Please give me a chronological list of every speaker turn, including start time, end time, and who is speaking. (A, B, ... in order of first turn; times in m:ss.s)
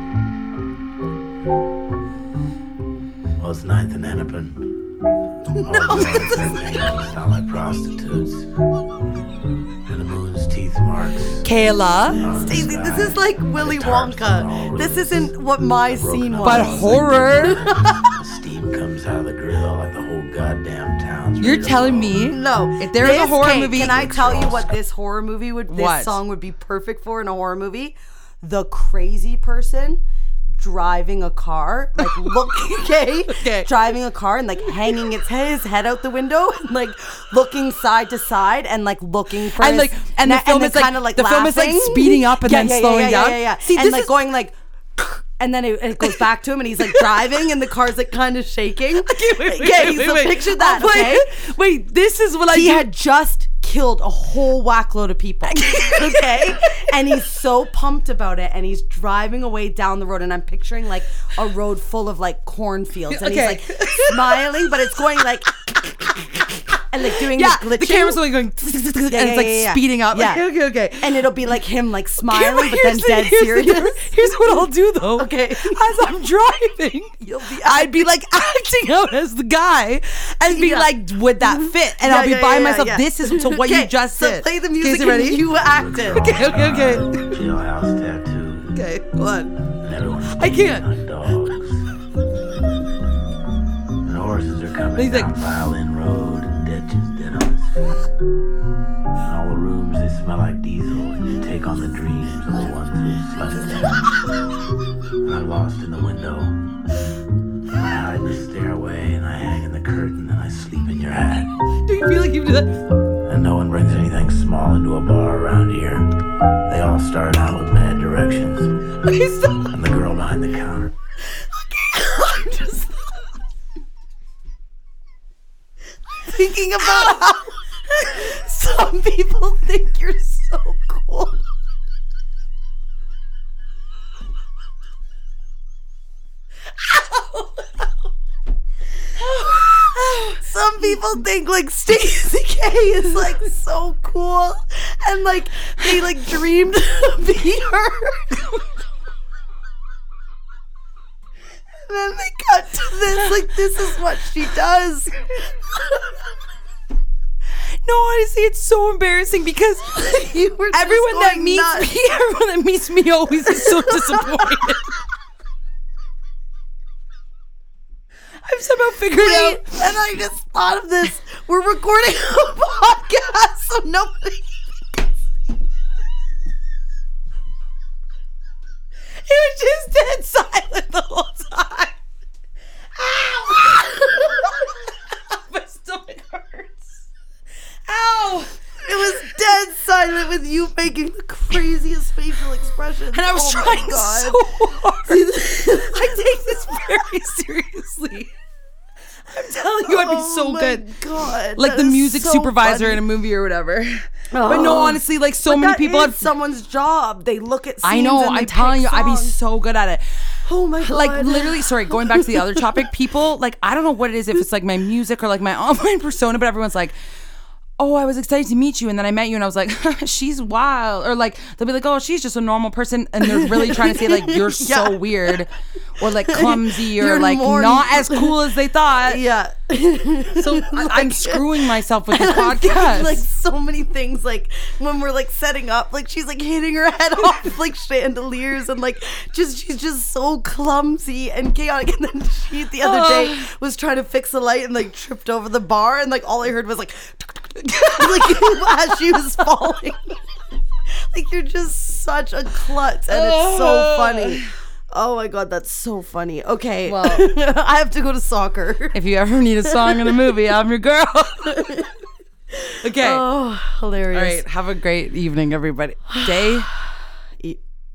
0:03.4-0:04.7 A
0:05.5-0:06.6 B
0:05.6-0:08.5 A
0:09.8-0:11.5 A
0:11.4-0:12.2 C
0:12.1-0:22.2 A
0:12.3-0:18.1 B
0:16.4-0:17.6 C
0:21.4-0:24.1 C
0:22.3-0:30.0 B
0:23.7-0:24.7 A
0:25.7-0:26.2 C
0:30.5-0:51.3 B
0:32.0-0:33.7 C
0:34.8-0:35.1 C
0:39.6-0:44.2 C
0:46.0-0:46.2 C
0:46.8-0:47.3 C
0:49.0-0:52.9 C
0:52.5-1:05.5 B
0:55.4-0:57.2 C
1:03.1-1:06.4 C
1:06.9-1:08.2 B
1:06.9-1:11.2 C
1:09.1-1:10.4 B
1:11.0-1:14.1 B
1:12.2-1:25.6 C
1:15.2-1:15.8 B
1:17.2-1:18.0 B
1:20.5-1:20.9 B
1:22.0-1:26.3 B
1:25.6-1:28.8 A
1:26.1-1:27.4 C
1:28.7-1:29.6 C
1:29.6-1:31.8 A
1:30.3-1:30.9 C
1:34.0-1:38.0 A
1:35.0-1:35.3 C
1:39.2-1:44.0 A
1:45.2-1:46.6 A
1:47.7-1:51.5 A
1:51.7-1:52.8 C
1:53.2-1:56.0 A
1:56.7-1:59.0 A
1:59.0-1:59.7 C
1:59.6-2:00.9 A
2:01.7-2:02.9 B
2:06.2-2:11.4 B
2:16.8-2:17.8 B
2:19.2-2:20.3 C
2:19.6-2:28.6 B
2:31.8-2:35.2 B
2:37.8-2:44.9 C
2:39.9-2:41.9 B
2:48.4-2:49.8 C
2:49.1-2:54.6 B
2:59.2-3:01.9 C
3:02.9-3:06.9 C
3:07.9-3:08.5 C
3:08.8-3:14.4 B
3:13.1-3:18.3 C
3:15.1-3:16.1 B
3:19.3-3:20.9 C
3:19.8-3:23.0 B
3:21.5-3:26.3 C
3:24.3-3:29.4 B
3:27.8-3:30.0 C
3:30.4-3:32.6 B
3:30.8-3:37.0 C
3:37.8-3:49.2 C
3:43.2-3:45.4 B
3:46.2-3:48.4 B
3:49.0-4:10.1 B
3:50.3-3:53.2 C
4:02.8-4:03.5 C
4:07.6-4:09.2 C
4:11.0-4:19.0 B
4:13.1-4:14.5 C
4:16.8-4:17.4 C
4:18.9-4:21.9 C
4:19.7-4:20.1 B
4:21.5-4:21.9 B
4:22.6-4:24.4 B
4:22.8-4:23.3 C
4:24.1-4:26.7 C
4:26.1-4:26.8 B